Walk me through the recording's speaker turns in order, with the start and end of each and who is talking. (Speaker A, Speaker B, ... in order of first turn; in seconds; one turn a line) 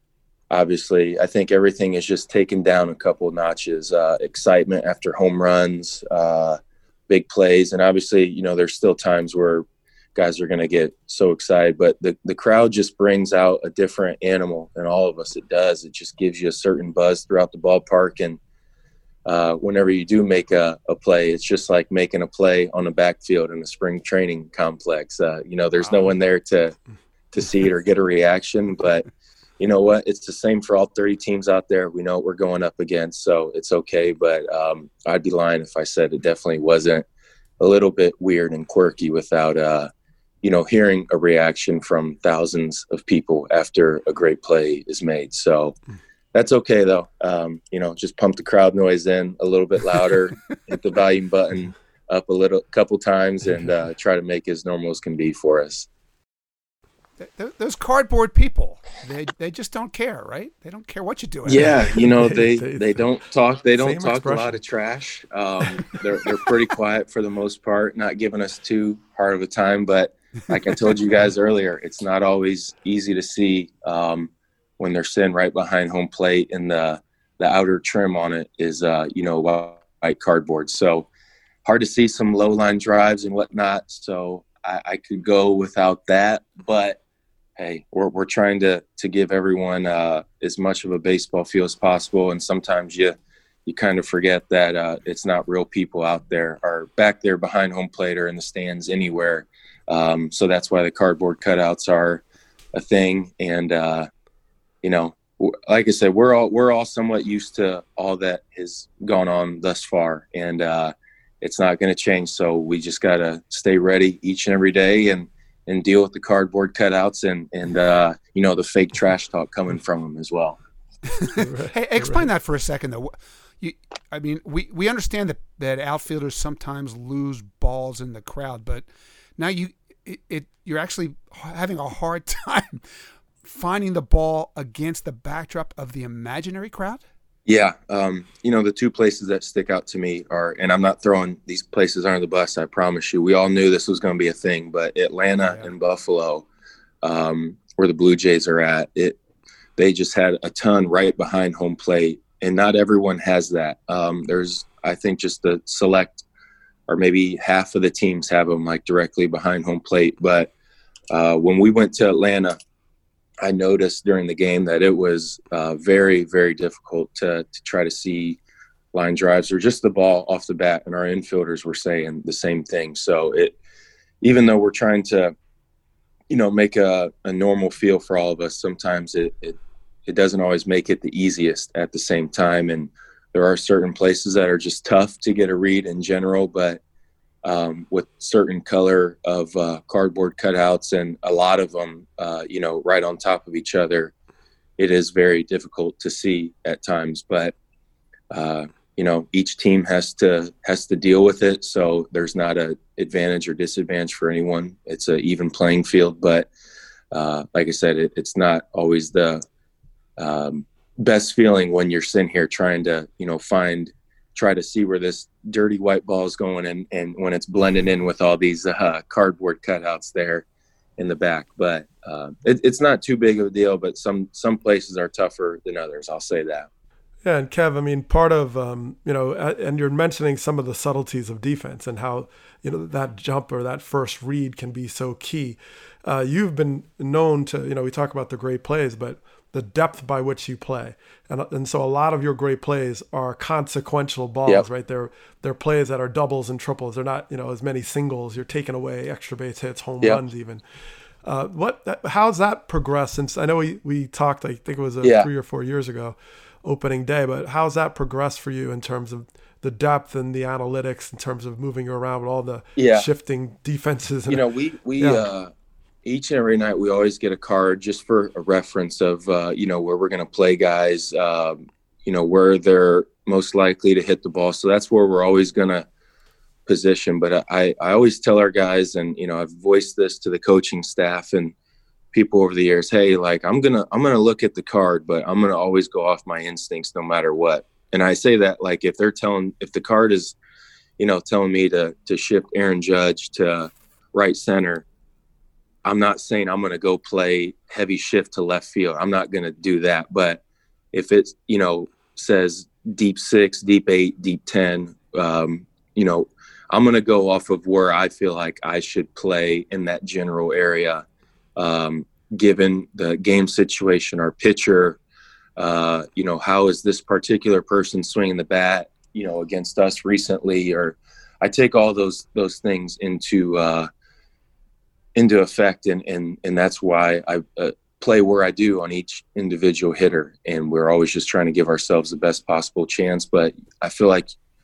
Speaker A: 0.5-18.4
Speaker A: 19.2-26.8
Speaker A: 27.3-29.1
Speaker A: 29.6-37.0
Speaker A: 37.6-39.9
Speaker A: 40.4-45.8
Speaker A: 46.3-55.9
Speaker B: 57.2-61.7
Speaker A: 61.5-81.1
Speaker C: 62.2-63.0
Speaker C: 63.8-64.6
Speaker A: 81.6-87.0
Speaker A: 87.6-104.1
Speaker A: 104.8-120.6
Speaker B: 121.1-128.8
Speaker C: 121.4-122.3
Speaker B: 129.4-132.8
Speaker B: 133.4-137.0
Speaker A: 137.5-146.4
Speaker A: 147.0-149.2
Speaker A: 149.8-156.2
Speaker A: 156.9-160.5
Speaker A: 161.1-162.6
Speaker A: 163.4-168.4
Speaker A: 168.9-173.6
Speaker A: 174.2-175.3
Speaker A: 176.3-186.8
Speaker A: 187.4-194.1
Speaker A: 194.8-197.5
Speaker A: 198.3-206.5
Speaker A: 207.1-209.4
Speaker A: 210.2-220.4
Speaker A: 221.0-226.7
Speaker C: 227.2-250.6
Speaker C: 251.2-264.4
Speaker A: 255.0-255.3
Speaker A: 262.8-263.1
Speaker A: 264.3-265.5
Speaker C: 265.0-265.3
Speaker A: 266.0-275.9
Speaker A: 276.7-281.5
Speaker A: 282.1-290.4
Speaker A: 291.0-294.8
Speaker A: 295.8-300.4
Speaker A: 300.9-311.0
Speaker A: 311.6-315.0
Speaker A: 315.6-323.9
Speaker A: 325.1-334.3